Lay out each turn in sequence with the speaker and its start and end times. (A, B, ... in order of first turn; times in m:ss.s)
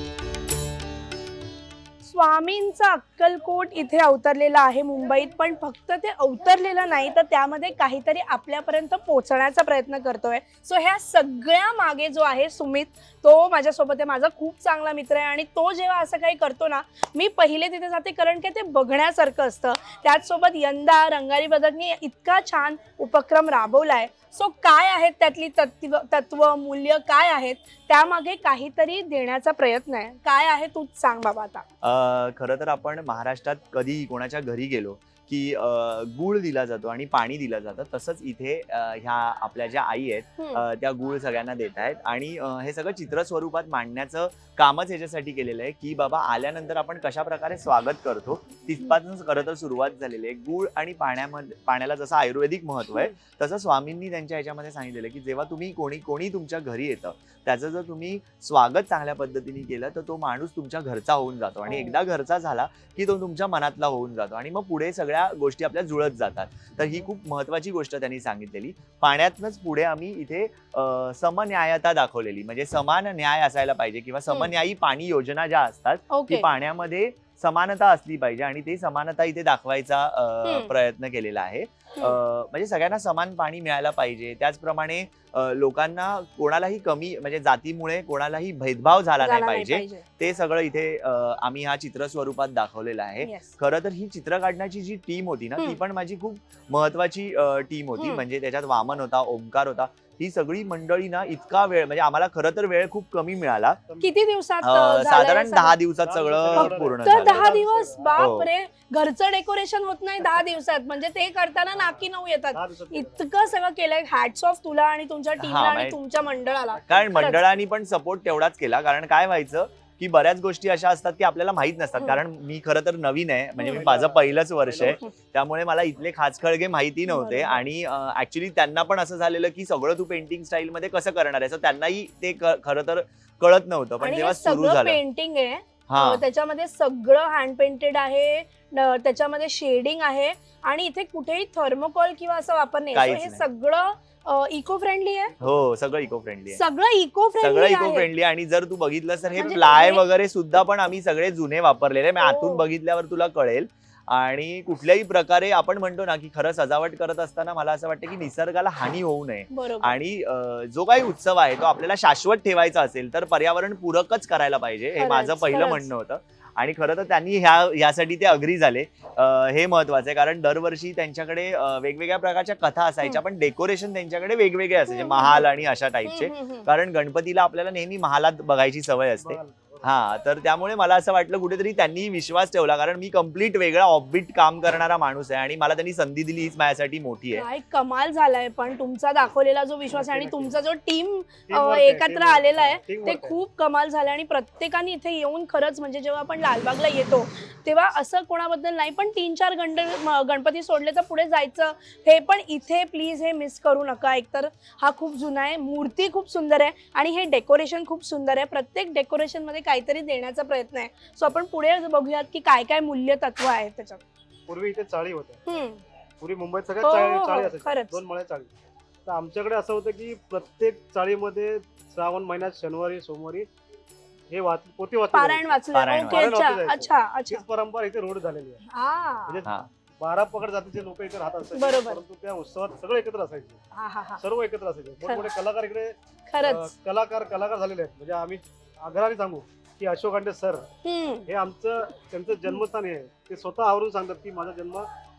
0:02.0-0:31.6 A
0:31.8-1:43.8 B
0:40.4-0:40.6 A
1:01.7-1:02.0 A
1:16.1-1:16.5 A
1:20.4-1:20.7 A
1:29.2-1:30.0 A
1:33.2-1:33.5 A
1:38.0-1:38.2 A
1:43.9-1:44.2 C
1:44.0-1:45.8 A
1:44.6-1:47.5 B
1:46.0-1:48.2 C
1:46.6-1:57.4 A
1:48.2-1:48.5 B
1:52.5-1:53.2 C
1:55.4-1:56.0 B
1:56.7-1:57.4 C
1:56.9-2:15.0 B
2:03.7-2:05.0 C
2:07.1-2:07.6 A
2:14.0-2:25.3 A
2:15.9-2:16.2 B
2:22.9-2:23.5 B
2:25.4-2:26.6 B
2:26.5-2:28.1 A
2:27.4-3:07.5 B
2:29.4-2:30.0 A
2:32.2-2:32.6 A
2:39.5-2:40.0 A
2:45.0-2:45.9 A
2:54.9-2:55.5 A
2:56.0-2:56.7 A
2:59.2-2:59.9 C
3:07.3-3:34.0 A
3:09.9-3:10.6 C
3:11.5-3:13.4 C
3:34.5-3:35.4 C
3:35.5-3:35.8 A
3:36.2-3:38.5 C
3:36.8-3:38.0 A
3:39.1-3:43.5 C
3:44.3-3:45.6 C
3:45.1-3:47.4 A
3:45.7-3:46.3 B
3:46.1-3:48.6 C
3:48.7-3:49.4 A
3:49.3-3:53.6 C
3:51.6-3:52.0 A
3:53.7-3:54.2 A
3:54.2-4:00.7 C
3:56.3-3:56.7 A
4:00.8-4:01.3 A
4:01.3-4:04.9 C